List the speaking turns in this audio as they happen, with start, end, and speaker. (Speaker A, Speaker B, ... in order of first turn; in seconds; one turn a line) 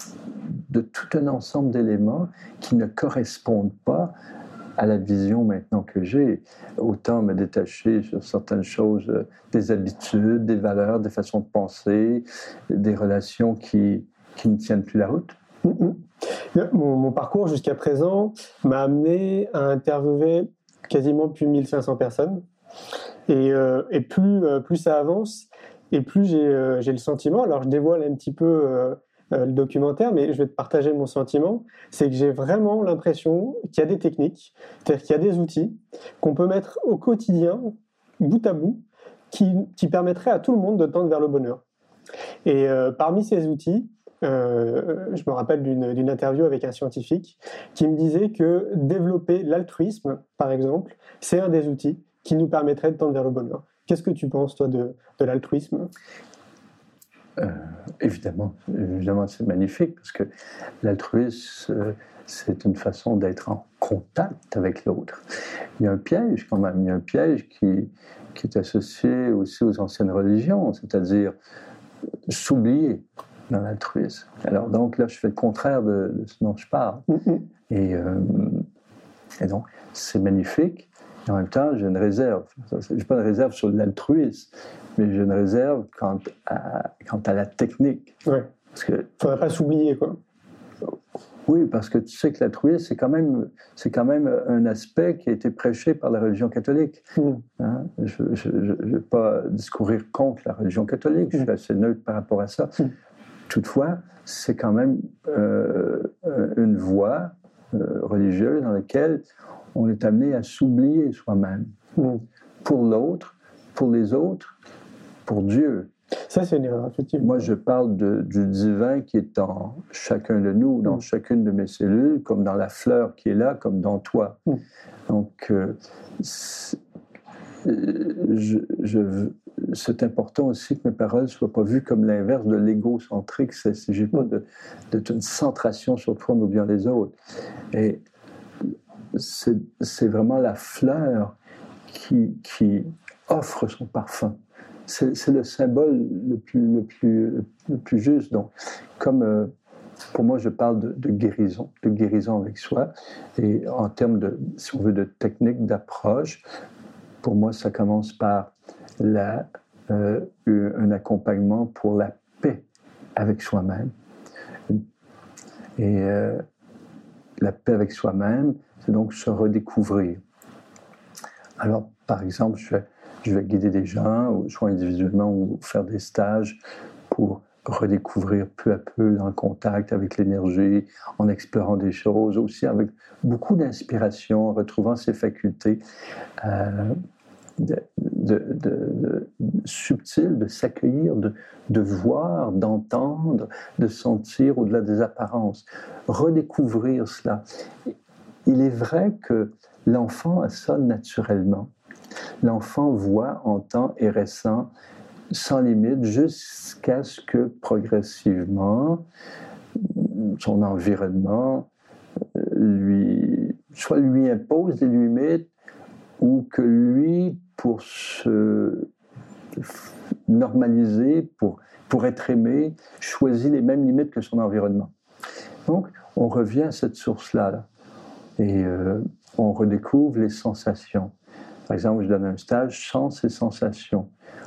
Speaker A: 0.7-4.1
Speaker A: 4.8-15.4
Speaker B: 15.6-16.0
Speaker B: 16.5-22.4
Speaker B: 23.3-41.6
Speaker B: 42.4-55.9
Speaker A: 57.4-60.3
Speaker A: 60.8-65.2
Speaker A: 65.8-71.3
Speaker A: 72.3-78.7
Speaker B: 77.1-77.4
Speaker A: 79.4-88.2
Speaker A: 88.7-89.2
Speaker B: 89.2-90.2
Speaker A: 91.5-97.0
Speaker B: 97.2-97.4
Speaker A: 97.6-102.9
Speaker A: 103.5-109.2
Speaker A: 109.7-111.7
Speaker B: 112.0-112.2
Speaker A: 112.6-114.5
Speaker A: 115.2-115.9
Speaker B: 116.3-117.5
Speaker A: 117.2-124.4
Speaker A: 125.1-126.8
Speaker A: 127.6-137.1
Speaker A: 137.7-138.0
Speaker A: 139.1-141.3
Speaker A: 141.9-144.3
Speaker A: 144.9-149.5
Speaker A: 150.1-156.4
Speaker A: 157.2-162.6
Speaker A: 163.2-163.9
Speaker A: 165.8-166.4
Speaker A: 167.4-170.2
Speaker A: 171.6-185.8
Speaker A: 186.4-187.0
Speaker A: 187.6-197.9
Speaker A: 198.4-201.7
Speaker A: 202.4-204.7
Speaker A: 205.3-209.0
Speaker A: 209.8-211.7
Speaker A: 212.3-215.5
Speaker A: 216.2-218.9
Speaker A: 220.3-224.9
Speaker A: 225.7-227.7
Speaker A: 228.4-231.1
Speaker A: 231.7-234.1